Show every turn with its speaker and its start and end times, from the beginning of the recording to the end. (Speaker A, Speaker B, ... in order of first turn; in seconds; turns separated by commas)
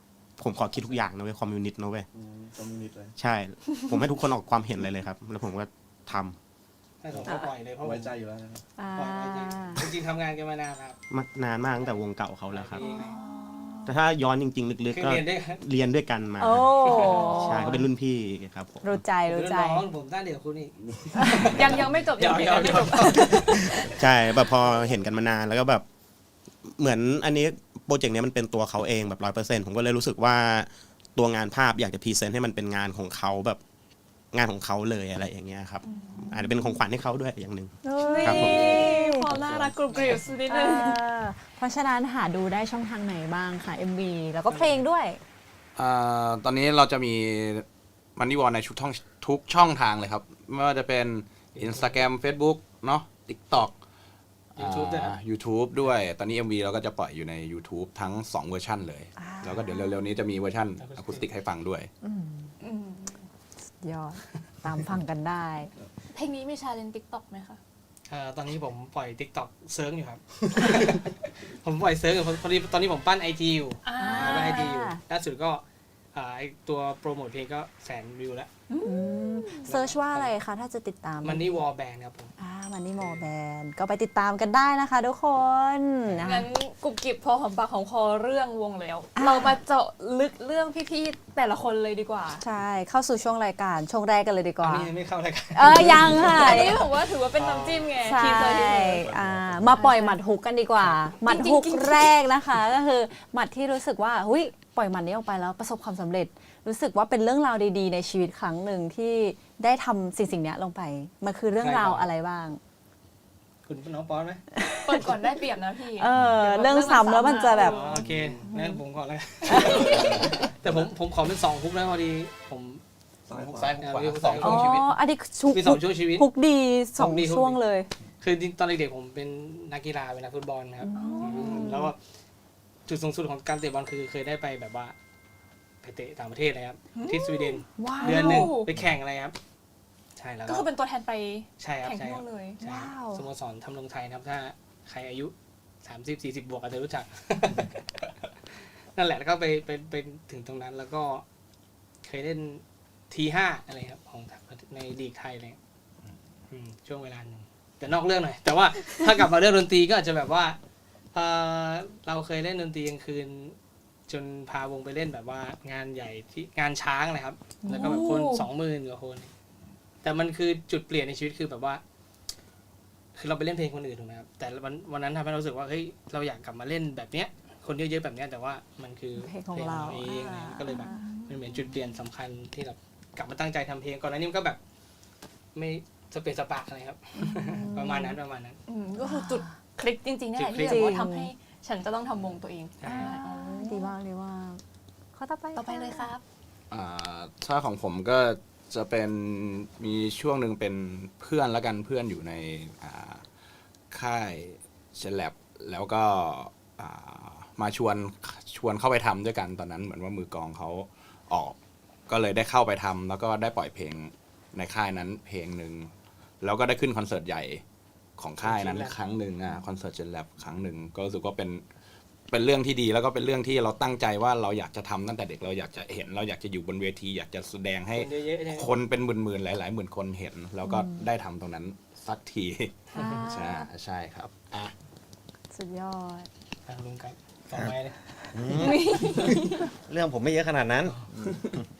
Speaker A: 0.4-2.1, Speaker B: 2.1-3.1, Speaker A: 3.2-6.4, Speaker C: 7.0-8.2, Speaker B: 7.1-8.7, Speaker D: 8.8-9.9, Speaker C: 9.0-11.0, Speaker A: 11.1-12.8, Speaker C: 12.5-13.2, Speaker D: 12.8-13.9, Speaker E: 12.9-13.2, Speaker A: 13.8-18.9, Speaker C: 14.9-15.6, Speaker D: 16.4-17.8, Speaker C: 16.8-17.8, Speaker E: 17.2-17.6, Speaker D: 18.8-19.9, Speaker C: 19.3-23.8, Speaker D: 21.2-21.5, Speaker E: 21.4-23.9, Speaker A: 23.6-25.8, Speaker A: 26.6-33.6, Speaker A: 34.3-38.9, Speaker E: 35.8-36.5, Speaker D: 37.8-39.3, Speaker E: 38.0-41.0, Speaker B: 39.3-39.7, Speaker C: 39.9-40.3, Speaker D: 40.5-45.2, Speaker C: 44.5-44.8, Speaker F: 45.8-53.7, Speaker C: 51.5-52.0, Speaker C: 54.6-55.2, Speaker F: 54.6-61.9, Speaker D: 59.2-60.0, Speaker C: 60.8-61.3, Speaker D: 62.0-62.5, Speaker E: 62.6-63.3, Speaker D: 63.8-65.7, Speaker E: 66.1-67.6, Speaker C: 68.1-75.6, Speaker E: 73.8-74.8, Speaker D: 74.0-75.0, Speaker C: 76.1-78.5, Speaker E: 78.7-79.7, Speaker D: 78.8-81.6, Speaker C: 79.7-80.3, Speaker C: 81.2-82.3, Speaker D: 82.4-86.5, Speaker C: 83.0-83.2, Speaker E: 86.2-92.4, Speaker D: 89.2-89.6, Speaker D: 92.4-94.9, Speaker C: 94.6-96.8, Speaker D: 95.5-96.8, Speaker B: 96.0-96.3, Speaker E: 96.2-99.1, Speaker C: 97.3-98.0, Speaker D: 98.0-112.6, Speaker B: 99.0-100.0, Speaker E: 99.7-100.2, Speaker E: 101.2-102.2, Speaker C: 111.6-112.1, Speaker C: 113.7-114.4, Speaker D: 114.6-115.2, Speaker E: 114.8-118.0, Speaker D: 116.0-117.8, Speaker C: 117.5-122.8, Speaker B: 117.9-118.5, Speaker D: 118.5-118.8, Speaker D: 119.5-120.2, Speaker B: 119.5-120.8, Speaker B: 123.3-123.8, Speaker F: 123.3-124.9, Speaker C: 123.8-124.8, Speaker D: 124.4-127.9, Speaker C: 125.5-126.3, Speaker C: 127.0-127.6, Speaker C: 128.2-132.0, Speaker D: 130.8-131.9, Speaker E: 131.0-131.8, Speaker C: 132.9-134.9, Speaker C: 135.8-139.3, Speaker E: 136.9-138.7, Speaker D: 137.8-138.6, Speaker C: 140.2-140.7, Speaker E: 140.5-142.6, Speaker C: 141.6-147.8, Speaker D: 142.6-143.2, Speaker C: 148.9-151.2, Speaker C: 152.0-155.6, Speaker C: 156.5-160.6, Speaker C: 161.1-163.6, Speaker C: 164.1-169.3, Speaker D: 167.6-168.5, Speaker E: 167.8-168.2, Speaker C: 170.0-171.8, Speaker C: 173.2-184.6, Speaker D: 179.2-181.4, Speaker C: 185.6-188.6, Speaker D: 187.2-188.2, Speaker E: 188.7-193.9, Speaker D: 189.0-189.5, Speaker C: 190.3-190.9, Speaker D: 190.7-191.3, Speaker C: 192.8-193.2, Speaker D: 192.9-194.6, Speaker D: 195.1-196.1, Speaker E: 195.6-196.2, Speaker F: 196.7-203.2, Speaker F: 203.9-211.6, Speaker F: 212.1-217.6, Speaker F: 218.2-221.7, Speaker C: 218.4-218.9, Speaker F: 222.3-234.7, Speaker C: 227.9-228.7, Speaker D: 230.6-231.1, Speaker D: 232.9-233.7, Speaker D: 235.5-236.3, Speaker C: 236.7-238.0, Speaker G: 238.3-241.0, Speaker E: 238.6-239.7, Speaker B: 241.1-241.6